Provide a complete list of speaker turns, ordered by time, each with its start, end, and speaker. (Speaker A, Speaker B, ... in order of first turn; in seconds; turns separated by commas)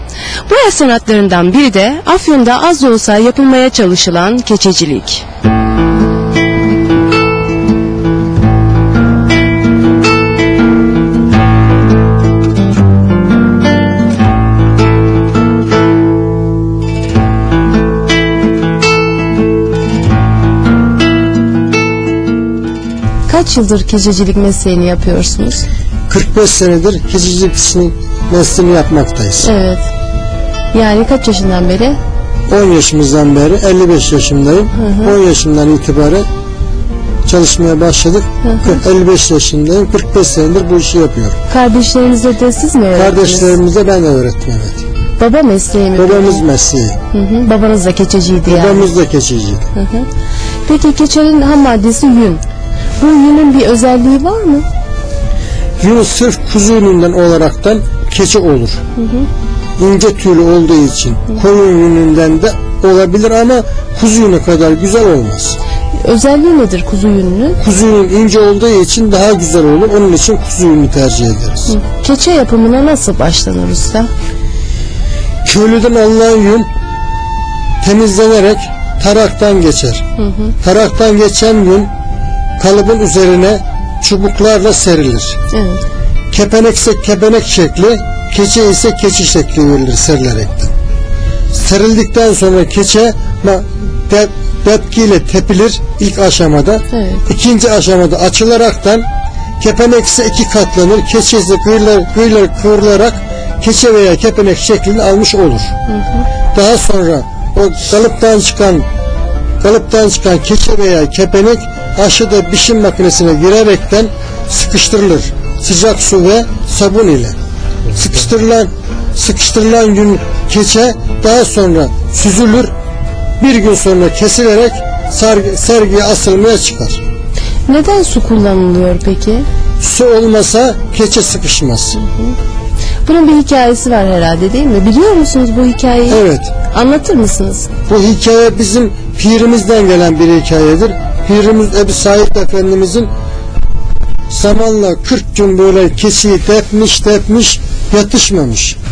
Speaker A: 0.5-5.2, Speaker A: 23.3-25.6, Speaker B: 26.1-29.5, Speaker A: 29.4-29.8, Speaker A: 30.7-32.0, Speaker B: 32.5-36.2, Speaker A: 34.8-35.1, Speaker B: 37.2-41.4, Speaker A: 38.4-38.8, Speaker A: 41.5-43.6, Speaker B: 43.0-44.8, Speaker A: 45.2-46.4, Speaker B: 46.0-47.0, Speaker A: 47.1-48.9, Speaker B: 48.5-49.7, Speaker A: 49.8-50.1, Speaker A: 50.6-52.4, Speaker A: 53.0-54.6, Speaker B: 55.8-58.8, Speaker A: 59.0-59.3, Speaker B: 59.8-65.6, Speaker A: 66.0-67.6, Speaker B: 67.6-71.7, Speaker A: 71.7-74.1, Speaker B: 75.4-76.7, Speaker B: 77.8-80.0, Speaker A: 80.2-80.5, Speaker B: 80.6-81.9, Speaker B: 82.6-85.4, Speaker A: 85.5-85.8, Speaker B: 86.3-90.7, Speaker B: 91.5-99.0, Speaker A: 96.9-97.2, Speaker B: 99.6-105.7, Speaker A: 105.9-106.2, Speaker B: 106.5-108.8, Speaker B: 109.6-117.3, Speaker B: 117.9-122.7, Speaker B: 123.4-127.0, Speaker A: 127.7-129.4, Speaker B: 129.8-132.0, Speaker A: 131.9-132.3, Speaker A: 133.1-137.7, Speaker B: 136.1-136.5, Speaker B: 137.9-143.1, Speaker B: 144.3-148.8